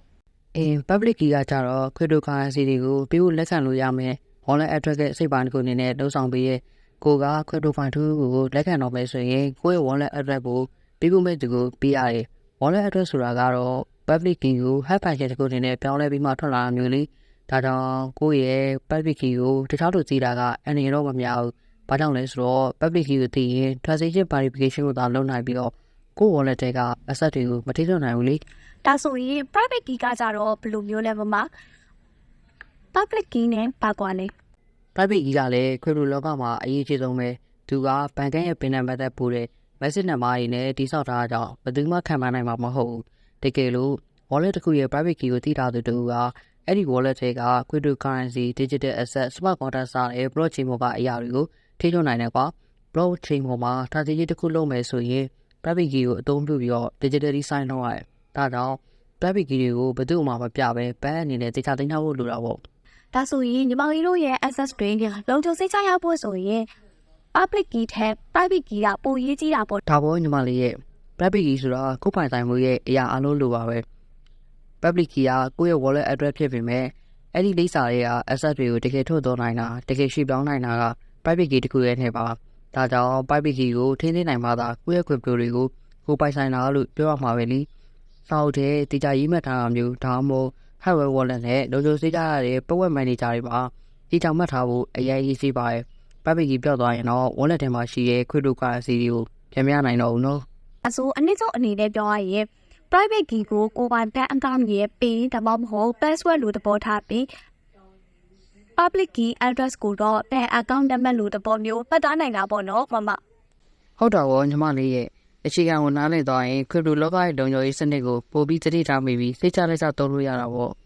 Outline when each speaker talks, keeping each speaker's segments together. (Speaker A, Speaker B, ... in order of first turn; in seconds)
Speaker A: 0.6-28.4, 35.0-62.6, 69.9-73.8, 74.8-87.7, 88.3-100.4, 114.0-120.8
Speaker B: 28.8-31.5, 32.9-34.3, 63.1-66.7, 67.3-69.8, 100.8-107.3, 108.8-113.2